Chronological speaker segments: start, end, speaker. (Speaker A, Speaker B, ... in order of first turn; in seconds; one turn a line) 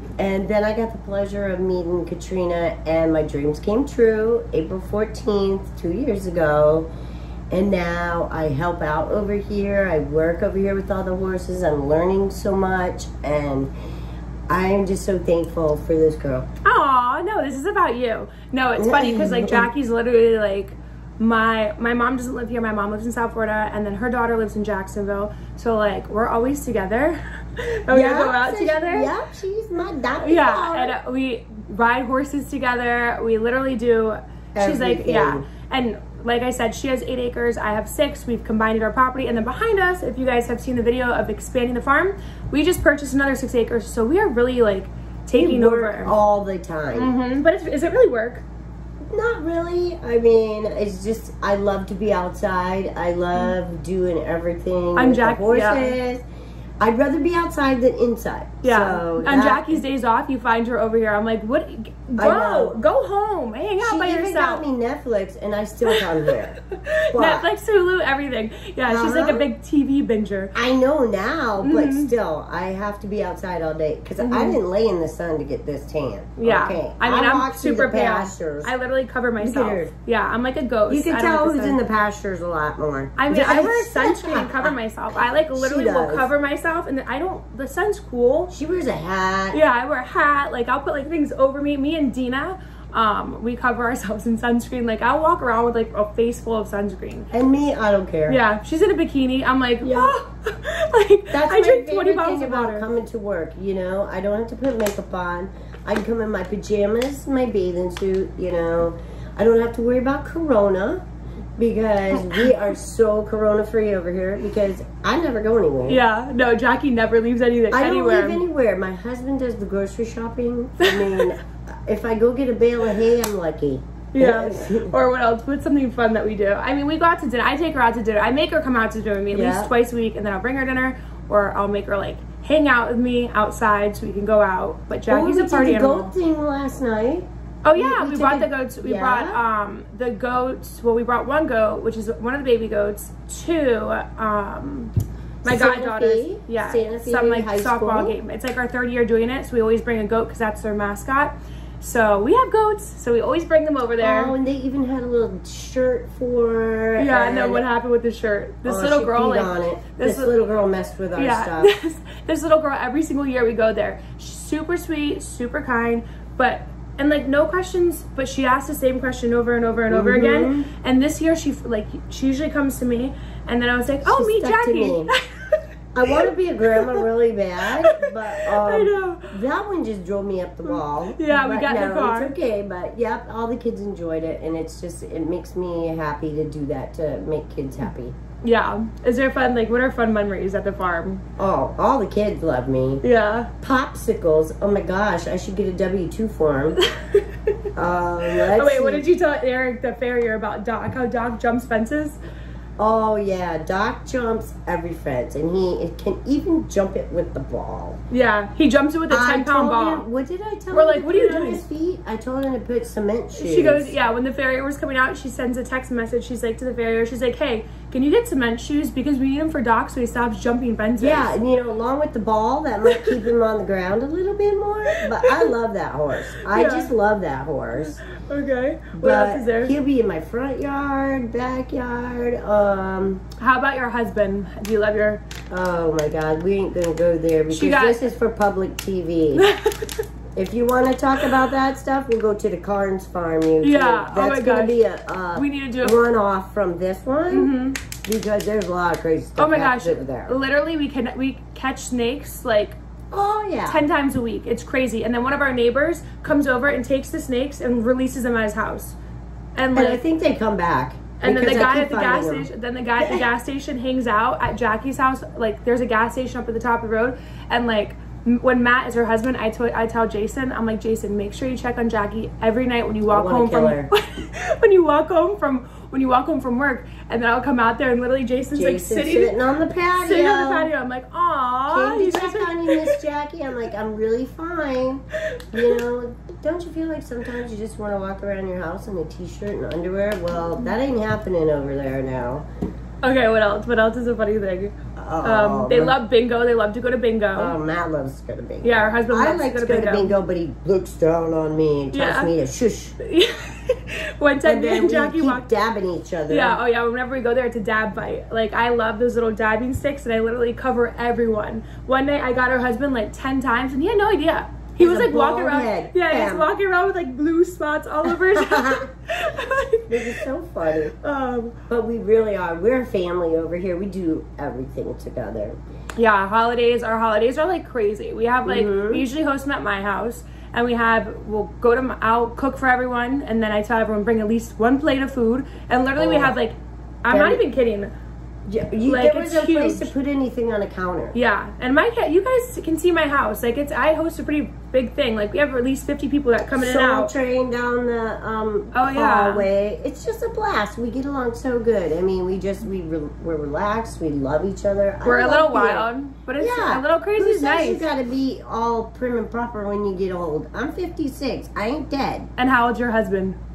Speaker A: 0.2-6.9
Speaker A: 7.5-13.7
Speaker A: 14.5-16.5
Speaker B: 16.6-29.1
Speaker A: 18.8-19.7
Speaker A: 27.9-31.0
Speaker B: 30.2-46.1
Speaker A: 34.5-35.5
Speaker A: 45.3-47.2
Speaker B: 47.0-48.4
Speaker A: 49.0-56.2
Speaker B: 55.0-56.0
Speaker A: 56.8-59.8
Speaker B: 58.6-64.7
Speaker A: 62.2-62.8
Speaker A: 63.8-66.6
Speaker B: 65.9-70.5
Speaker A: 67.1-67.5
Speaker A: 68.9-69.5
Speaker A: 70.5-78.7
Speaker B: 71.6-72.1
Speaker B: 74.2-74.6
Speaker B: 76.4-81.8
Speaker A: 79.4-79.9
Speaker A: 80.9-84.8
Speaker B: 83.2-88.5
Speaker A: 85.5-86.3
Speaker A: 88.5-89.6
Speaker B: 89.5-97.3
Speaker A: 97.3-98.4
Speaker B: 98.3-102.9
Speaker A: 99.8-100.2
Speaker A: 101.3-111.0
Speaker A: 111.6-116.0
Speaker B: 112.2-112.5
Speaker B: 115.9-118.4
Speaker A: 117.7-125.0
Speaker B: 120.8-121.2
Speaker B: 124.1-136.1
Speaker A: 129.3-129.7
Speaker A: 135.1-139.4
Speaker B: 137.7-144.9
Speaker A: 145.4-148.2
Speaker B: 145.4-154.4
Speaker A: 154.0-157.7
Speaker B: 157.0-160.3
Speaker A: 158.7-161.7
Speaker B: 161.2-175.6
Speaker A: 169.9-170.7
Speaker A: 174.0-175.1
Speaker A: 175.9-188.2
Speaker B: 176.8-177.0
Speaker B: 177.9-179.3
Speaker B: 180.7-182.3
Speaker B: 188.4-191.2
Speaker A: 191.4-193.0
Speaker B: 193.0-193.5
Speaker A: 193.6-196.8
Speaker B: 196.8-197.2
Speaker A: 197.8-199.1
Speaker B: 198.3-202.2
Speaker A: 202.8-208.0
Speaker B: 208.1-210.1
Speaker A: 209.1-214.0
Speaker B: 210.7-211.6
Speaker B: 213.3-221.3
Speaker A: 221.0-228.0
Speaker B: 224.9-225.5
Speaker B: 226.5-226.9
Speaker B: 228.1-229.7
Speaker A: 229.0-233.2
Speaker B: 233.4-235.2
Speaker A: 235.5-239.4
Speaker B: 237.5-238.1
Speaker B: 239.4-240.1
Speaker A: 240.4-247.5
Speaker B: 243.6-244.8
Speaker B: 245.3-246.0
Speaker B: 247.3-247.8
Speaker A: 248.0-250.4
Speaker B: 249.4-252.8
Speaker A: 253.1-253.8
Speaker B: 253.7-259.0
Speaker B: 259.6-260.0
Speaker A: 259.7-263.2
Speaker B: 261.2-279.3
Speaker A: 273.1-273.9
Speaker A: 278.5-280.7
Speaker B: 280.0-283.0
Speaker A: 281.7-292.5
Speaker B: 285.3-285.8
Speaker B: 293.0-297.6
Speaker A: 295.0-296.0
Speaker A: 297.4-302.9
Speaker B: 298.6-300.2
Speaker B: 301.9-302.3
Speaker B: 303.0-305.5
Speaker A: 304.4-306.6
Speaker B: 306.3-320.2
Speaker A: 314.8-316.5
Speaker A: 318.1-318.9
Speaker A: 319.9-320.9
Speaker B: 321.0-321.6
Speaker A: 321.7-325.6
Speaker B: 326.0-337.9
Speaker A: 328.4-329.1
Speaker A: 336.0-336.4
Speaker A: 337.1-337.4
Speaker A: 338.5-341.2
Speaker B: 338.9-339.9
Speaker B: 341.1-347.1
Speaker A: 346.6-355.9
Speaker B: 348.7-349.5
Speaker B: 355.1-357.9
Speaker A: 356.4-362.3
Speaker B: 362.4-363.4